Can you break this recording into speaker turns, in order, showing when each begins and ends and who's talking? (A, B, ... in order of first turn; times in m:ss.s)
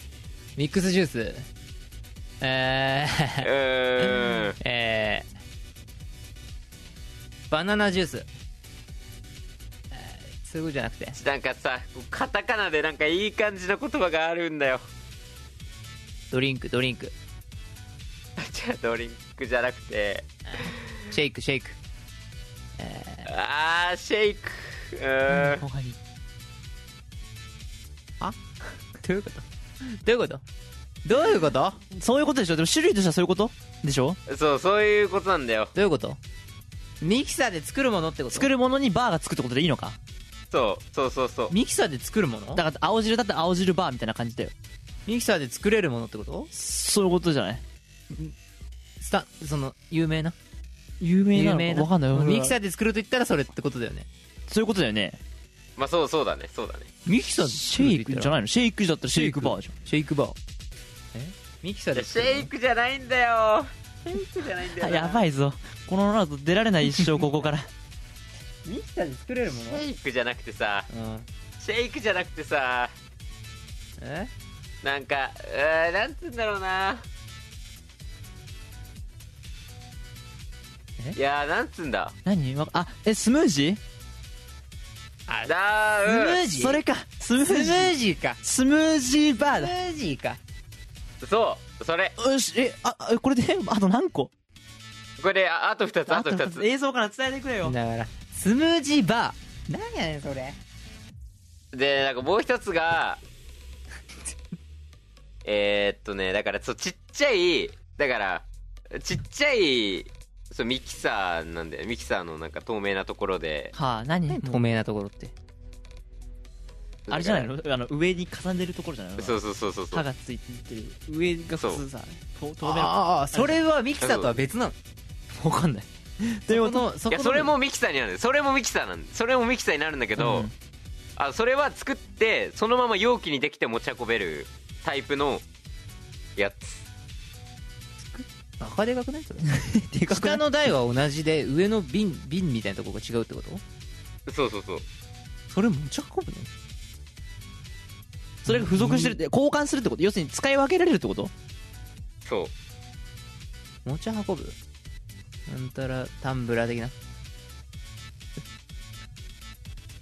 0:00.6-0:01.5 A
0:02.4-0:03.5 A
0:03.4-0:04.6 B
0:04.0-0:05.3 A
0:07.5-0:08.3 A
0:09.9-0:11.2 A
0:11.2-0:14.8 B
0:16.3-0:17.1 A
0:18.4-0:20.8 B
0:20.5-0:21.8 A
0:22.8-0:23.3 A
0:23.3-0:25.6 B
0:25.3-0:26.0 C
0:29.0-0:29.5 A
0:30.0-0:30.4 A
0:31.0-0:31.8 A
0:31.9-0:34.2 C
0:34.3-0:35.7 B
0:35.8-0:36.2 A
0:37.0-0:38.5 A
0:38.3-0:40.0 C
0:40.5-0:41.6 B
0:41.5-0:42.6 A
0:42.6-0:44.5 C
0:45.1-0:46.5 A
0:46.5-0:47.6 C
0:49.0-0:50.4 A
0:51.0-0:52.6 C
0:51.3-0:54.1 A
0:54.5-0:55.2 C
0:55.8-0:56.9 B
0:57.1-0:58.3 A
0:57.4-0:59.7 C
0:59.2-1:00.4 A
1:01.1-1:02.5 A
1:01.9-1:05.2 B
1:04.8-1:07.7 C
1:08.6-1:09.8 A
1:09.5-1:10.9 B
1:10.9-1:11.3 A
1:11.6-1:12.9 B
1:14.0-1:14.3 A
1:14.8-1:17.0 B
1:21.2-1:22.2 B
1:22.2-1:23.8 C
1:25.4-1:26.4 B
1:26.0-1:26.8 A
1:26.5-1:29.7 C
1:27.4-1:28.4 A
1:29.4-1:30.4 A
1:31.2-1:32.1 B
1:32.2-1:34.3 C
1:35.2-1:36.7 B
1:36.1-1:37.8 C
1:37.6-1:40.6 A
1:41.7-1:43.2 B
1:45.4-1:53.7 B
1:53.7-1:54.6 C
1:54.3-1:55.3 A
1:57.1-1:57.5 B
1:57.1-1:59.4 C
1:59.2-2:00.0 B
1:59.9-2:03.6 C
2:01.6-2:01.8 B
2:02.6-2:04.8 A
2:04.0-2:04.4 B
2:05.4-2:06.9 C
2:06.5-2:07.5 A
2:07.1-2:10.5 B
2:10.2-2:10.5 C
2:11.2-2:15.4 B
2:16.4-2:16.8 B
2:18.0-2:19.5 A
2:19.5-2:20.4 C
2:20.1-2:23.6 A
2:24.3-2:24.8 B
2:25.5-2:26.5 A
2:28.4-2:29.2 A
2:28.4-2:31.3 C
2:32.3-2:32.5 B
2:33.8-2:34.6 A
2:35.5-2:36.9 A